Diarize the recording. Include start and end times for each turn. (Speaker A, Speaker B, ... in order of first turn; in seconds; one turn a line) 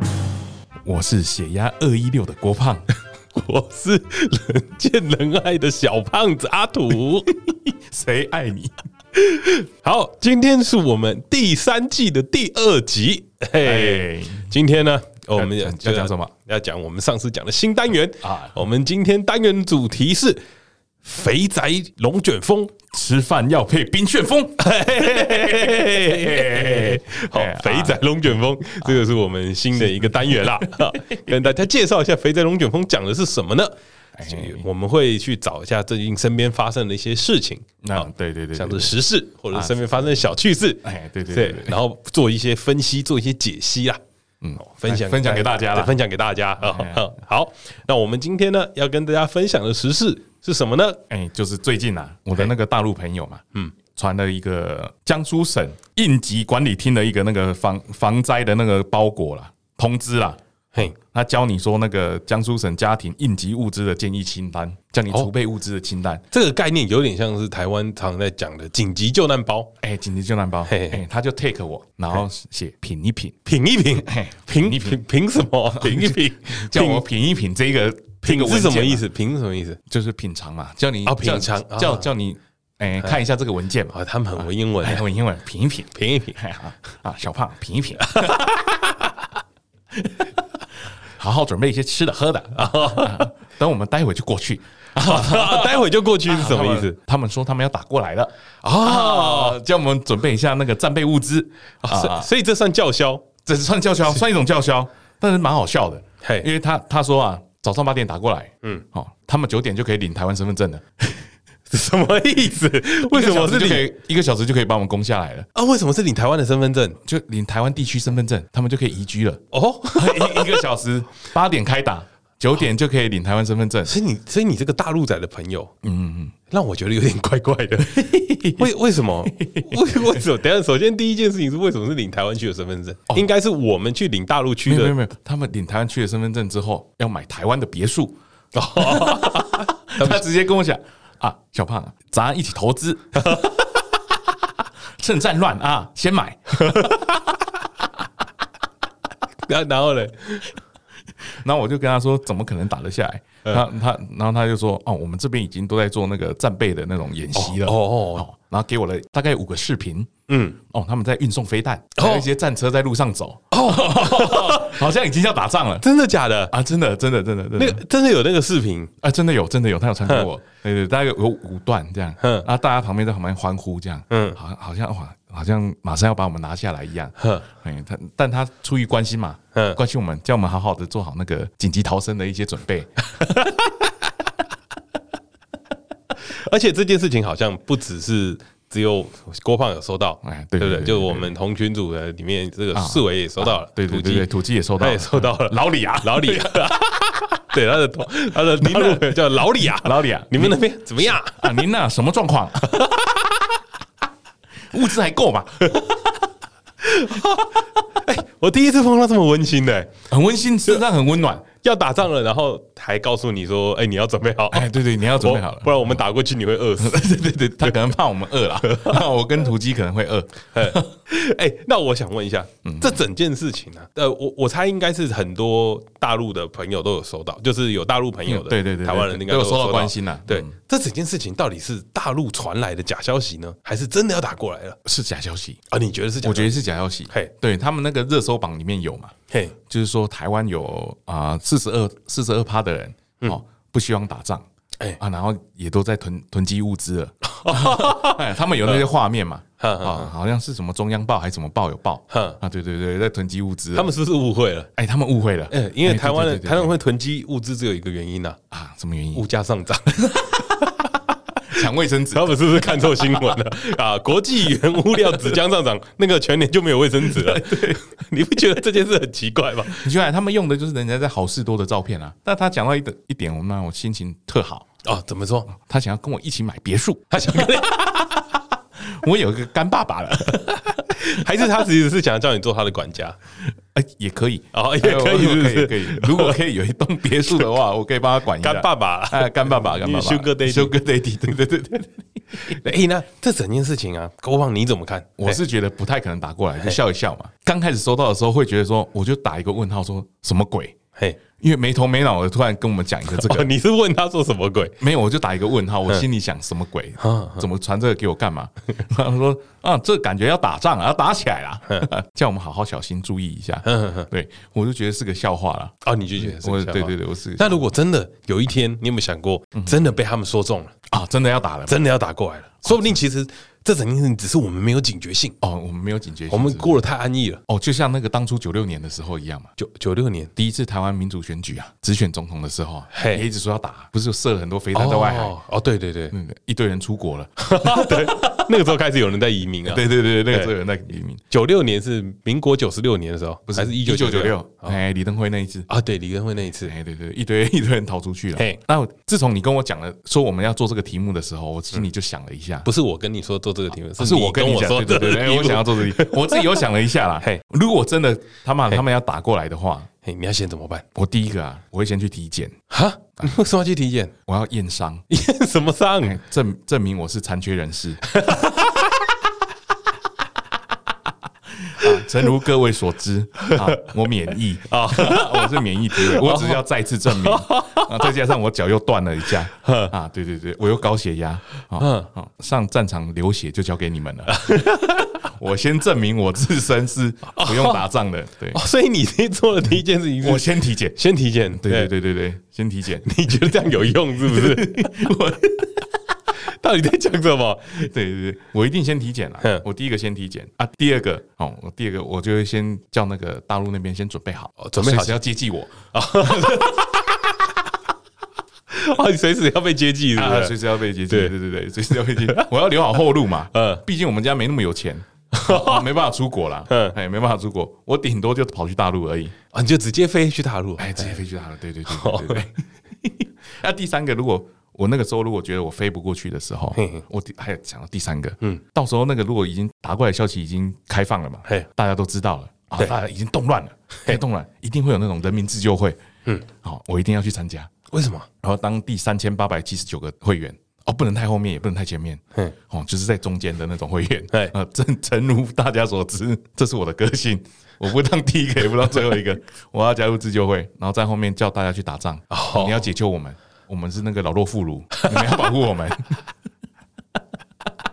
Speaker A: 0.8-2.8
Speaker B: 3.3-7.3
Speaker A: 7.3-8.7
Speaker B: 9.1-20.4
Speaker A: 13.6-14.5
Speaker A: 15.3-16.3
Speaker A: 18.2-18.5
Speaker B: 21.0-22.7
Speaker A: 22.9-28.0
Speaker B: 24.6-33.7
Speaker A: 29.8-31.4
Speaker A: 34.1-34.6
Speaker B: 34.2-44.0
Speaker A: 37.8-39.0
Speaker A: 39.5-40.0
Speaker A: 40.8-41.8
Speaker A: 44.4-46.0
Speaker B: 44.6-51.0
Speaker A: 46.6-47.1
Speaker A: 51.1-53.4
Speaker A: 53.9-66.2
Speaker B: 66.3-69.7
Speaker A: 69.8-73.3
Speaker B: 70.7-71.0
Speaker B: 73.4-77.0
Speaker A: 74.0-75.0
Speaker A: 75.7-79.0
Speaker B: 78.2-79.8
Speaker A: 79.9-88.5
Speaker B: 81.0-82.1
Speaker B: 83.9-85.0
Speaker B: 85.9-86.4
Speaker B: 88.0-89.3
Speaker A: 90.0-90.4
Speaker A: 91.2-102.3
Speaker B: 92.5-93.3
Speaker B: 95.0-97.0
Speaker B: 98.6-99.6
Speaker B: 101.8-103.2
Speaker A: 103.5-111.3
Speaker B: 106.2-106.5
Speaker B: 111.7-113.9
Speaker A: 113.1-115.5
Speaker B: 115.5-117.0
Speaker A: 117.0-119.4
Speaker B: 119.5-120.6
Speaker A: 119.9-123.9
Speaker B: 123.8-125.7
Speaker A: 125.8-126.3
Speaker B: 126.5-135.0
Speaker A: 127.8-128.7
Speaker A: 129.2-129.9
Speaker A: 134.6-138.2
Speaker B: 138.5-140.2
Speaker A: 138.8-143.5
Speaker B: 143.2-143.6
Speaker A: 145.0-147.1
Speaker B: 146.5-147.3
Speaker B: 149.4-150.6
Speaker A: 151.2-160.1
Speaker B: 157.3-158.3
Speaker B: 160.3-160.6
Speaker A: 160.7-165.8
Speaker B: 161.9-162.2
Speaker B: 163.5-164.8
Speaker B: 165.8-166.5
Speaker A: 166.5-167.8
Speaker B: 167.6-168.9
Speaker A: 169.0-183.0
Speaker B: 172.2-172.5
Speaker B: 174.1-174.4
Speaker B: 177.2-177.5
Speaker B: 179.5-179.8
Speaker B: 183.1-183.9
Speaker B: 186.2-201.5
Speaker A: 190.2-191.3
Speaker A: 192.7-197.0
Speaker A: 198.6-202.8
Speaker B: 202.6-203.2
Speaker A: 204.7-205.8
Speaker B: 206.8-209.9
Speaker A: 210.1-211.4
Speaker B: 211.6-217.7
Speaker A: 214.5-216.0
Speaker A: 216.8-220.9
Speaker B: 218.6-219.0
Speaker B: 220.5-234.8
Speaker A: 222.6-223.0
Speaker A: 228.2-230.5
Speaker A: 234.8-235.6
Speaker B: 235.7-236.6
Speaker A: 236.2-244.5
Speaker B: 239.3-239.6
Speaker A: 245.0-253.9
Speaker B: 247.2-248.9
Speaker B: 249.6-250.1
Speaker B: 252.1-252.4
Speaker B: 253.7-254.7
Speaker A: 254.8-256.7
Speaker B: 255.5-258.4
Speaker A: 258.5-259.2
Speaker B: 259.1-261.0
Speaker A: 260.0-260.6
Speaker A: 261.5-263.4
Speaker B: 262.1-269.9
Speaker A: 264.9-265.3
Speaker A: 267.1-267.8
Speaker A: 269.7-274.7
Speaker B: 274.8-275.5
Speaker A: 275.5-278.0
Speaker B: 277.1-278.3
Speaker A: 278.8-281.2
Speaker B: 280.3-283.2
Speaker A: 283.7-292.6
Speaker B: 284.5-286.4
Speaker B: 288.4-290.7
Speaker B: 292.4-295.4
Speaker A: 295.2-300.8
Speaker A: 301.4-303.5
Speaker B: 303.1-304.8
Speaker A: 304.8-317.7
Speaker B: 307.0-307.4
Speaker B: 313.6-314.1
Speaker B: 315.8-320.7
Speaker A: 319.6-319.9
Speaker A: 320.9-321.8
Speaker B: 321.7-325.4
Speaker A: 322.6-322.9
Speaker A: 325.4-326.8
Speaker B: 326.3-327.4
Speaker A: 327.5-329.5
Speaker B: 329.6-330.3
Speaker A: 330.4-335.3
Speaker B: 332.9-333.2
Speaker B: 334.7-336.1
Speaker A: 336.1-338.6
Speaker B: 337.4-340.5
Speaker A: 339.6-341.2
Speaker B: 341.3-344.8
Speaker A: 343.5-345.7
Speaker B: 345.7-346.7
Speaker A: 346.6-352.7
Speaker B: 352.6-356.6
Speaker A: 353.9-359.9
Speaker B: 360.0-360.8
Speaker A: 360.9-362.6
Speaker B: 362.7-364.1
Speaker A: 364.3-365.1
Speaker B: 365.1-366.2
Speaker A: 366.0-368.2
Speaker B: 368.1-368.9
Speaker A: 371.6-384.6
Speaker B: 373.4-373.9
Speaker B: 374.7-378.1
Speaker B: 379.5-379.9
Speaker B: 381.8-382.1
Speaker B: 384.3-385.2
Speaker A: 385.1-388.6
Speaker B: 387.3-387.8
Speaker B: 388.5-391.9
Speaker A: 390.2-391.0
Speaker A: 391.5-393.3
Speaker B: 393.0-394.9
Speaker A: 394.2-395.9
Speaker B: 396.4-397.9
Speaker A: 397.7-406.8
Speaker B: 404.6-405.2
Speaker B: 405.9-407.1
Speaker B: 408.7-411.3
Speaker A: 410.1-419.4
Speaker B: 411.9-412.5
Speaker B: 413.5-413.8
Speaker B: 415.3-415.9
Speaker B: 416.7-416.9
Speaker B: 419.5-421.2
Speaker A: 420.8-437.7
Speaker B: 421.9-422.5
Speaker B: 426.8-427.0
Speaker B: 437.9-438.3
Speaker A: 438.4-456.2
Speaker B: 452.3-452.8
Speaker B: 454.9-455.5